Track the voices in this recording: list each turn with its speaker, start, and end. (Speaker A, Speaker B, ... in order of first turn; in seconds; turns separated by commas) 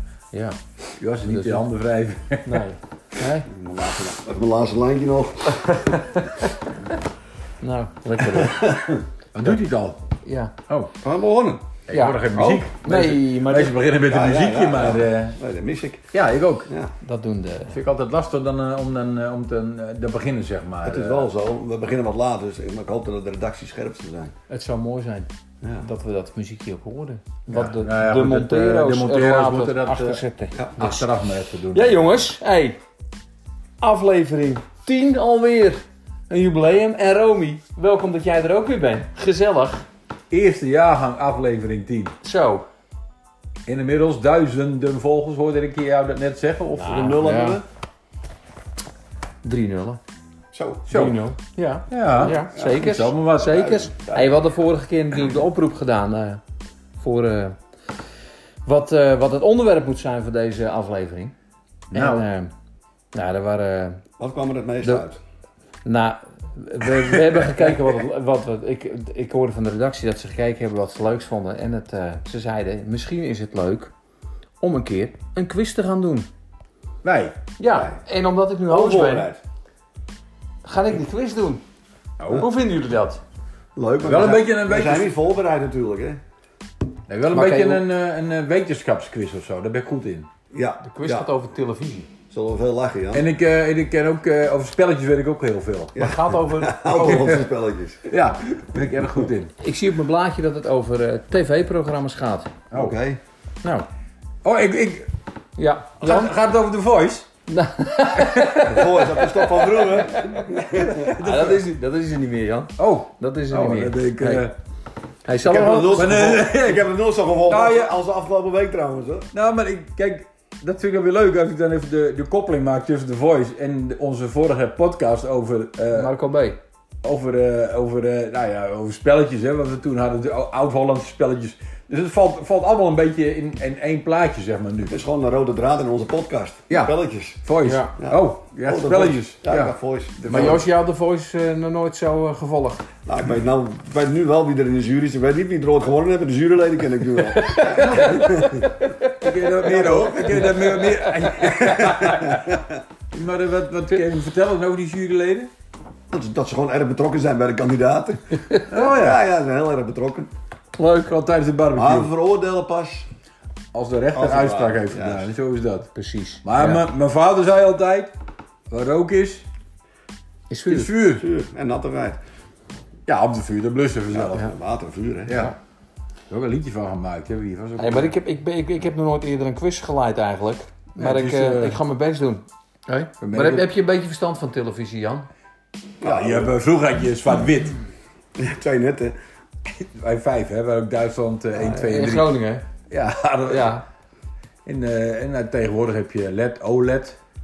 Speaker A: 0.3-0.6, Speaker B: 1.0-2.6, Speaker A: 1.2-1.7, Speaker A: 2.5-3.5, Speaker C: 3.5-6.0, Speaker A: 5.9-6.5, Speaker A: 7.6-8.6, Speaker C: 8.2-9.1, Speaker B: 9.3-10.0, Speaker A: 10.2-10.5, Speaker C: 11.0-11.7, Speaker B: 11.9-15.4, Speaker A: 11.9-12.3, Speaker C: 12.3-12.7, Speaker A: 12.8-13.8, Speaker C: 14.1-16.1, Speaker B: 16.1-16.7, Speaker A: 17.0-17.8, Speaker B: 17.7-21.3, Speaker C: 20.8-24.3, Speaker A: 24.5-31.1, Speaker B: 27.5-30.2, Speaker C: 30.6-30.8, Speaker B: 30.8-32.0, Speaker A: 31.7-32.8, Speaker A: 33.8-39.9, Speaker B: 40.3-42.1, Speaker A: 42.2-42.6, Speaker B: 43.7-47.2, Speaker A: 46.8-47.6, Speaker C: 46.9-47.6, Speaker A: 49.4-50.0, Speaker C: 50.5-50.9, Speaker B: 50.9-51.2, Speaker A: 50.9-56.4, Speaker B: 51.9-53.6, Speaker C: 52.1-52.9, Speaker C: 53.4-54.4, Speaker A: 57.0-57.6, Speaker A: 58.6-61.4, Speaker A: 61.9-62.5, Speaker B: 61.9-62.2, Speaker A: 63.1-64.0, Speaker C: 64.2-65.2, Speaker A: 65.8-73.9, Speaker A: 74.6-76.3, Speaker B: 77.0-77.3, Speaker A: 77.6-79.3, Speaker C: 77.7-78.0, Speaker C: 78.7-79.4, Speaker A: 80.6-81.6, Speaker B: 82.2-82.5, Speaker A: 82.3-83.2, Speaker C: 83.8-86.2, Speaker B: 84.0-85.1, Speaker B: 87.1-90.3, Speaker A: 87.3-87.9, Speaker C: 90.5-91.3, Speaker A: 90.8-92.1, Speaker C: 92.3-93.3, Speaker B: 93.1-96.0, Speaker C: 95.9-98.1, Speaker A: 96.0-97.3, Speaker B: 96.9-97.5, Speaker B: 98.1-99.5, Speaker A: 99.6-102.5, Speaker C: 102.7-103.2, Speaker B: 104.4-105.1, Speaker A: 105.6-106.3, Speaker B: 106.0-107.3, Speaker A: 107.5-110.5, Speaker B: 108.2-108.6, Speaker C: 108.6-111.2, Speaker B: 110.8-111.6, Speaker A: 111.2-114.5, Speaker B: 112.8-114.5, Speaker A: 115.2-116.0, Speaker C: 115.4-119.3, Speaker B: 115.6-116.9, Speaker B: 117.5-118.0, Speaker B: 119.3-126.2, Speaker A: 125.9-126.6, Speaker B: 127.0-135.0, Speaker C: 134.9-137.4, Speaker B: 136.7-140.6, Speaker A: 137.7-137.9, Speaker C: 138.0-140.6, Speaker A: 140.3-142.8, Speaker C: 143.1-148.8, Speaker A: 147.3-148.9, Speaker B: 147.7-148.2, Speaker B: 149.2-152.5, Speaker C: 149.6-150.8, Speaker A: 150.4-151.3, Speaker C: 151.5-152.8, Speaker B: 153.1-155.5, Speaker C: 156.1-160.3, Speaker B: 158.6-159.2, Speaker A: 160.7-161.1, Speaker B: 161.1-162.1, Speaker C: 161.7-163.1, Speaker B: 163.7-165.9, Speaker C: 164.1-165.3, Speaker A: 165.9-166.8, Speaker B: 166.4-168.1, Speaker B: 168.7-169.4, Speaker A: 170.5-170.9, Speaker B: 170.7-171.3, Speaker C: 171.2-172.2, Speaker B: 173.1-174.5, Speaker C: 174.1-175.5, Speaker B: 175.3-175.6, Speaker B: 176.3-178.1, Speaker A: 177.8-185.3, Speaker B: 181.0-181.8, Speaker B: 183.2-183.7, Speaker C: 186.0-186.5, Speaker B: 186.0-187.8, Speaker C: 188.4-189.2, Speaker B: 189.8-192.3, Speaker C: 191.5-191.9, Speaker A: 191.8-192.7, Speaker B: 192.9-193.8, Speaker A: 193.5-193.8, Speaker B: 194.7-197.2